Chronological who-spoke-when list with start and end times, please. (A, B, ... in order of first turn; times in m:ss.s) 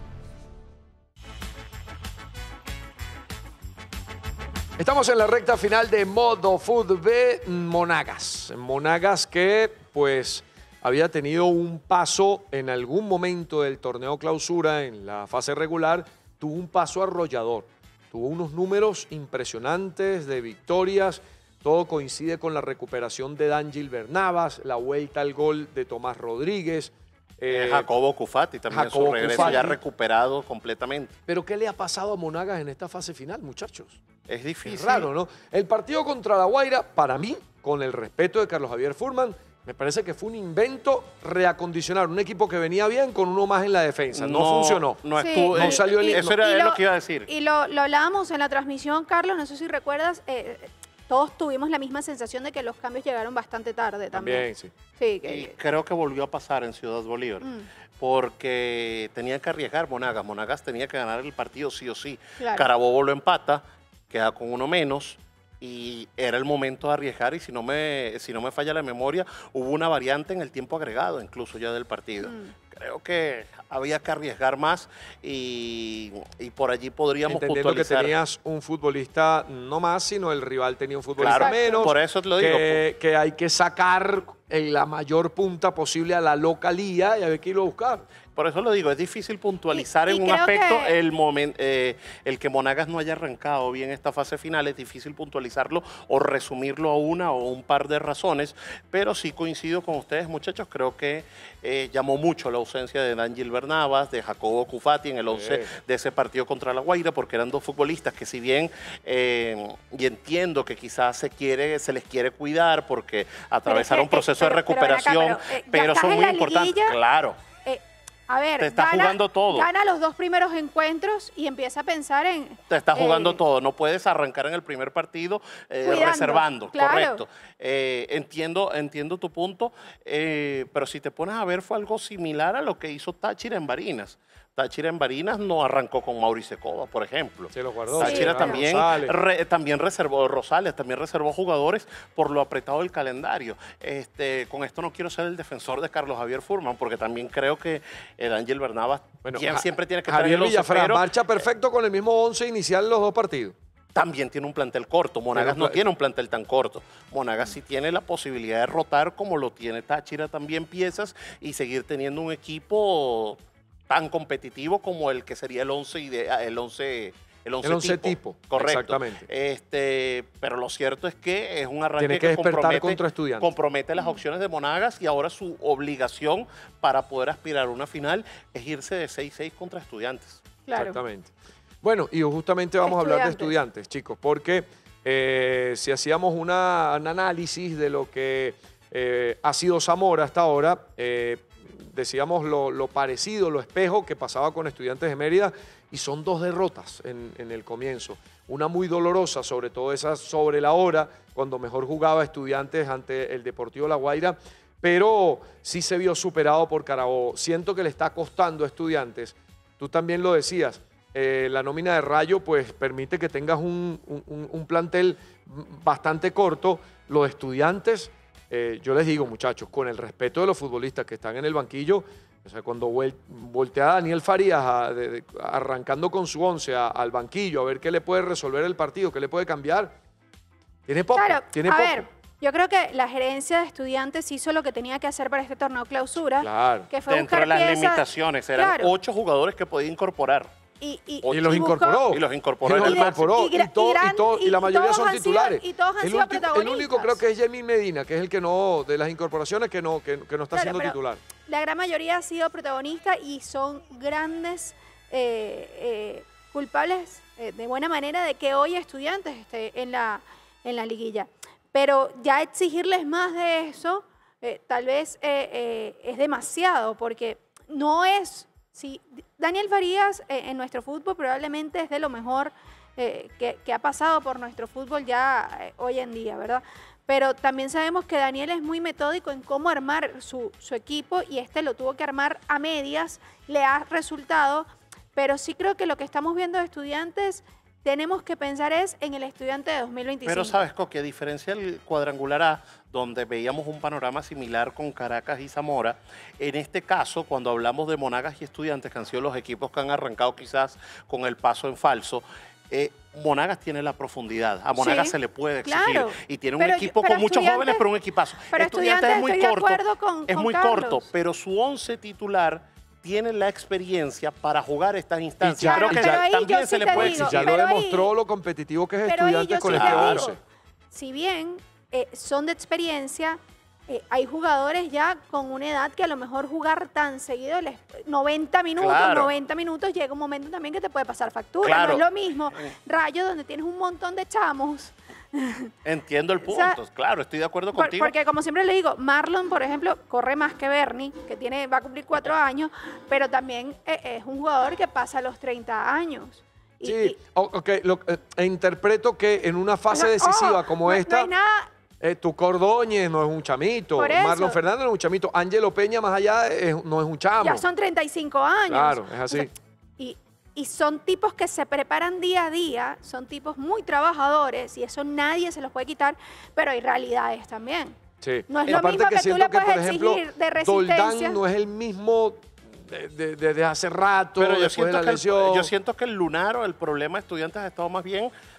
0:04.8-0:27.9 A
0:27.5-0:31.2 B
0:28.7-0:29.8 A
0:31.3-0:34.0 A
0:34.3-0:35.1 B
0:34.7-0:46.3 A
0:44.1-0:47.3 B
0:45.2-0:55.5 C
0:54.1-0:54.7 A
0:55.2-0:57.5 B
0:57.4-0:57.7 C
0:58.0-1:18.2 B
1:02.4-1:02.7 C
1:12.2-1:12.5 C
1:17.3-1:28.0 A
1:21.2-1:22.8 B
1:21.3-1:21.9 C
1:28.4-1:57.4 B
1:29.7-1:30.9 C
1:45.3-1:45.7 A
1:53.7-1:57.0 C
1:57.6-2:03.4 C
1:58.6-1:59.7 B
2:02.7-2:31.4 B
2:05.8-2:07.2 C
2:17.5-2:19.2 A
2:18.0-2:18.6 C
2:29.2-2:33.6 A
2:34.0-3:00.4 B
2:35.3-2:35.8 A
2:47.6-2:49.3 A
2:52.0-2:53.5 A
3:00.7-3:01.0 C
3:00.8-3:50.0 A
3:02.8-3:03.5 C
3:50.9-3:52.1 A
3:51.2-3:58.0 C
3:56.4-3:56.9 A
3:57.1-4:00.5 B
3:58.6-3:58.9 C
4:00.8-4:02.2 C
4:01.2-4:03.2 B
4:01.3-4:11.2 A
4:02.8-4:07.2 C
4:10.5-4:50.6 C
4:50.2-5:17.4 B
5:04.8-5:07.8 C
5:08.5-5:11.1 C
5:15.4-5:16.3 A
5:15.6-5:18.1 C
5:16.9-5:20.4 A
5:19.1-5:20.4 C
5:19.6-5:20.3 B
5:20.9-5:35.7 C
5:28.8-5:29.3 B
5:31.6-5:32.7 B
5:35.8-5:38.1 B
5:36.4-5:36.8 C
5:37.8-5:47.2 C
5:46.8-5:51.3 A
5:49.9-5:51.7 C
5:52.0-5:57.6 A
5:54.0-5:54.6 C
5:57.4-6:08.0 C
5:58.7-5:59.5 A
6:08.2-6:15.7 A
6:08.5-6:11.4 C
6:14.4-6:18.3 B